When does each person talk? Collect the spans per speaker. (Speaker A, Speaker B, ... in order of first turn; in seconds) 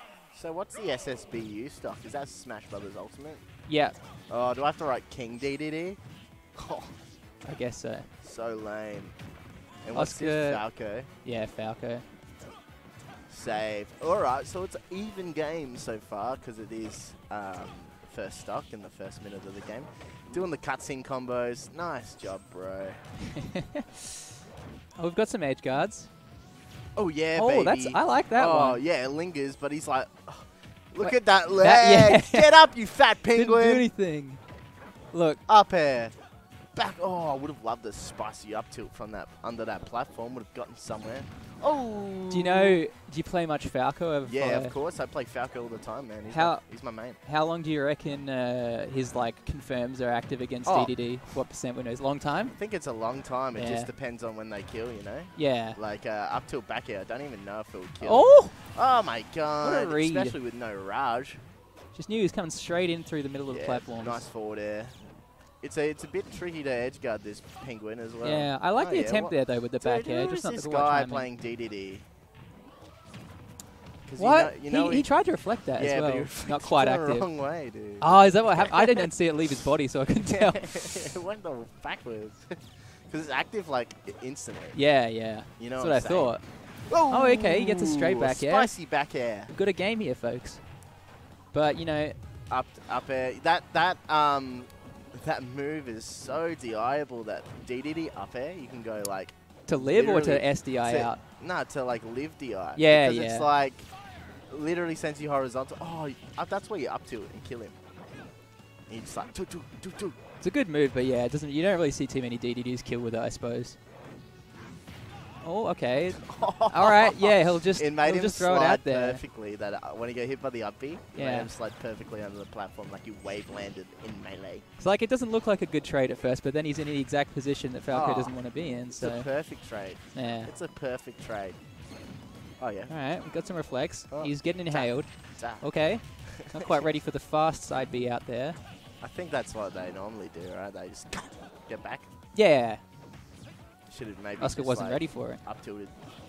Speaker A: 0.3-3.5, 4.3-6.0, 6.5-7.0, 8.2-9.2, 9.8-11.1, 13.3-23.1, 27.0-33.9, 35.5-36.2, 36.7-42.8, 44.2-47.2, 50.6-51.3, 52.6-61.4, 63.5-72.1, 74.1-75.1, 75.8-79.0, 80.2-84.8, 85.6-89.5, 92.5-103.9, 104.5-107.8, 108.9-110.2, 116.2-124.7, 127.9-131.6, 132.6-132.9, 134.1-136.9, 139.0-142.1, 143.9-146.1
Speaker B: 3.7-4.0, 7.5-8.1, 9.9-12.1, 23.3-23.9, 25.0-26.1, 27.4-28.8, 31.0-34.4, 35.1-35.4, 42.3-44.8, 46.3-52.6, 53.5-53.9, 55.4-55.8, 58.0-58.6, 59.6-60.4, 61.9-64.3, 68.2-71.3, 74.2-77.4, 78.0-81.1, 84.7-90.8, 91.5-92.2, 99.7-101.2, 102.8-103.5, 110.4-113.8, 115.4-119.2, 121.2-121.5, 124.8-129.4, 130.1-130.5, 132.9-138.6, 142.3-142.8, 144.4-145.4